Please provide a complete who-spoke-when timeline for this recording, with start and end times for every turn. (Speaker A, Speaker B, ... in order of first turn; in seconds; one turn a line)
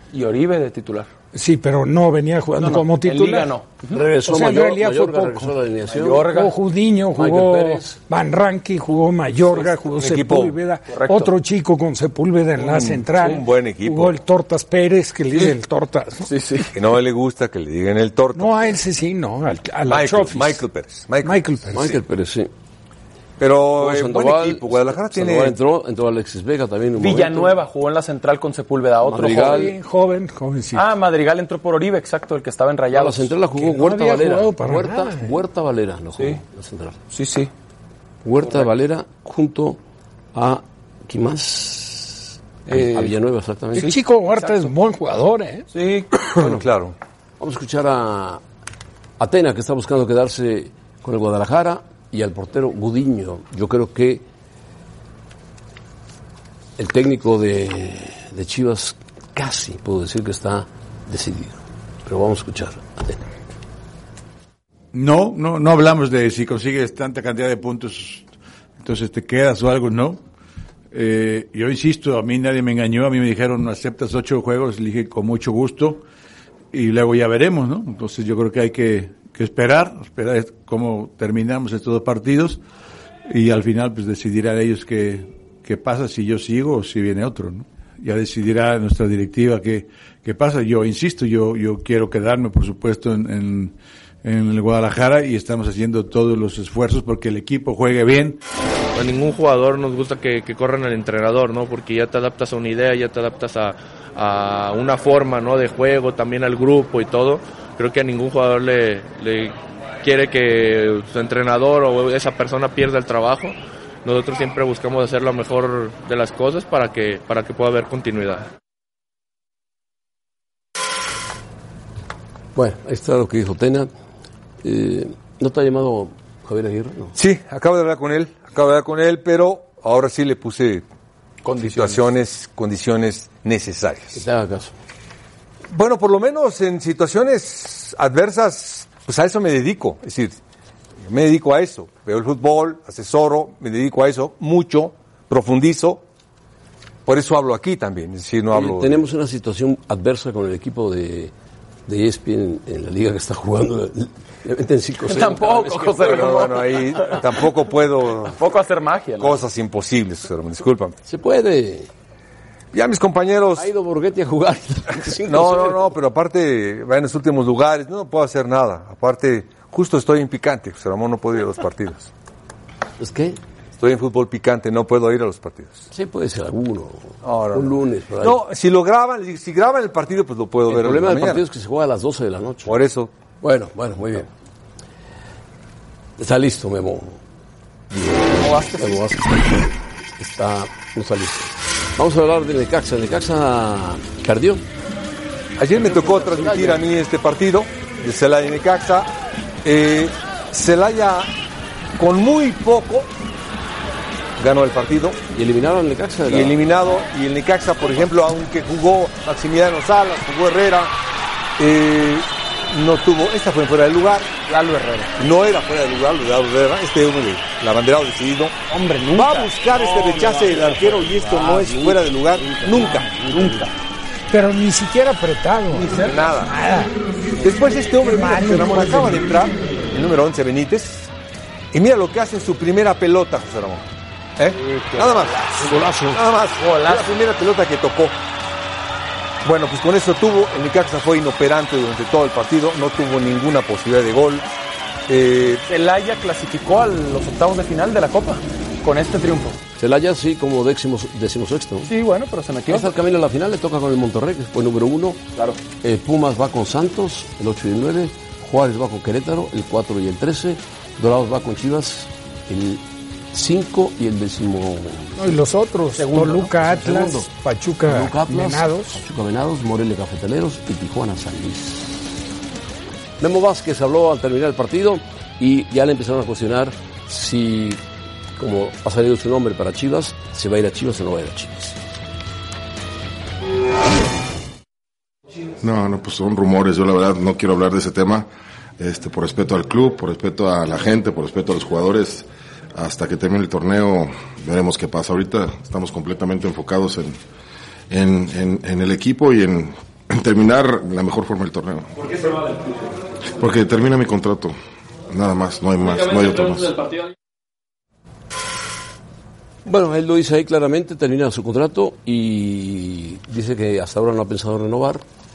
Speaker A: 0.1-1.1
Speaker B: 1.3-3.5
Speaker A: 2.6-4.0
Speaker C: 3.9-6.3
Speaker B: 4.2-5.5
Speaker A: 5.9-6.5
Speaker B: 6.3-16.3
Speaker C: 7.2-8.0
Speaker A: 9.5-9.8
Speaker D: 9.9-10.6
Speaker A: 10.9-11.3
Speaker D: 12.6-14.2
Speaker A: 16.2-16.7
Speaker D: 16.7-18.7
Speaker B: 18.4-20.6
Speaker D: 19.9-21.9
Speaker B: 21.2-21.9
Speaker C: 21.7-22.5
Speaker D: 23.4-25.6
Speaker C: 23.8-27.6
Speaker A: 27.0-29.7
Speaker C: 29.0-29.7
Speaker B: 29.3-30.9
Speaker A: 30.7-33.4
Speaker C: 32.9-37.0
Speaker B: 33.5-35.4
Speaker A: 37.1-37.5
Speaker C: 38.2-39.8
Speaker A: 38.4-38.7
Speaker C: 40.3-43.9
Speaker A: 42.7-43.1
Speaker A: 43.8-44.7
Speaker B: 43.8-45.7
Speaker A: 45.7-46.1
Speaker D: 46.4-47.0
Speaker C: 46.4-46.7
Speaker C: 47.4-48.4
Speaker C: 49.2-54.2
Speaker C: 56.8-63.2
Speaker E: 64.9-68.3
Speaker E: 68.8-70.2
Speaker E: 70.9-76.0
Speaker E: 76.7-82.6
Speaker E: 83.3-98.4
Speaker F: 99.0-118.5
Speaker C: 122.6-123.9
Speaker C: 124.6-127.2
Speaker D: 127.2-130.9
Speaker A: 131.4-132.1
Speaker D: 131.6-134.2
Speaker C: 134.2-134.8
Speaker D: 135.7-140.4
Speaker D: 141.0-146.0
Speaker D: 147.1-149.0
Speaker C: 148.5-151.3
Speaker C: 151.9-156.4
Speaker A: 155.1-157.2
Speaker D: 156.0-158.4
Speaker A: 158.2-159.4
Speaker D: 159.2-161.0
Speaker C: 161.1-161.9
Speaker D: 162.7-163.7
Speaker C: 163.6-165.9
Speaker D: 165.0-172.1
Speaker C: 173.0-173.4
Speaker D: 173.8-175.9
Speaker C: 175.9-178.4
Speaker D: 177.2-181.4
Speaker C: 180.7-182.7
Speaker D: 182.7-183.1
Speaker C: 183.4-184.3
Speaker C: 186.2-187.2
Speaker C: 187.9-194.7
Speaker A: 188.4-189.0
Speaker D: 195.6-199.1
Speaker C: 195.8-196.8
Speaker D: 199.6-201.3
Speaker D: 202.0-203.1
Speaker D: 204.4-205.2
Speaker C: 205.3-206.6
Speaker D: 206.2-210.9
Speaker D: 211.6-214.3
Speaker A: 214.5-215.1
Speaker D: 215.2-218.5
Speaker A: 218.7-221.4
Speaker D: 219.1-223.1
Speaker C: 221.4-223.6
Speaker A: 223.3-223.7
Speaker B: 224.3-226.9
Speaker A: 225.7-226.1
Speaker D: 226.0-226.6
Speaker D: 227.4-231.1
Speaker B: 228.0-229.3
Speaker D: 231.7-238.2
Speaker A: 234.5-235.9
Speaker C: 235.7-236.2
Speaker A: 236.6-237.1
Speaker D: 239.4-244.5
Speaker D: 245.1-245.6
Speaker A: 245.7-249.6
Speaker C: 249.8-251.9
Speaker A: 251.9-252.9
Speaker C: 252.7-255.2
Speaker C: 255.8-265.4
Speaker B: 265.2-269.0
Speaker A: 265.9-266.5
Speaker C: 266.6-267.3
Speaker C: 267.9-272.1
Speaker C: 273.2-277.8
Speaker C: 278.4-281.8
Speaker G: 285.6-288.3
Speaker G: 288.8-297.2
Speaker G: 297.9-302.3
Speaker G: 303.4-304.6
Speaker G: 305.1-306.9
Speaker C: 309.6-315.0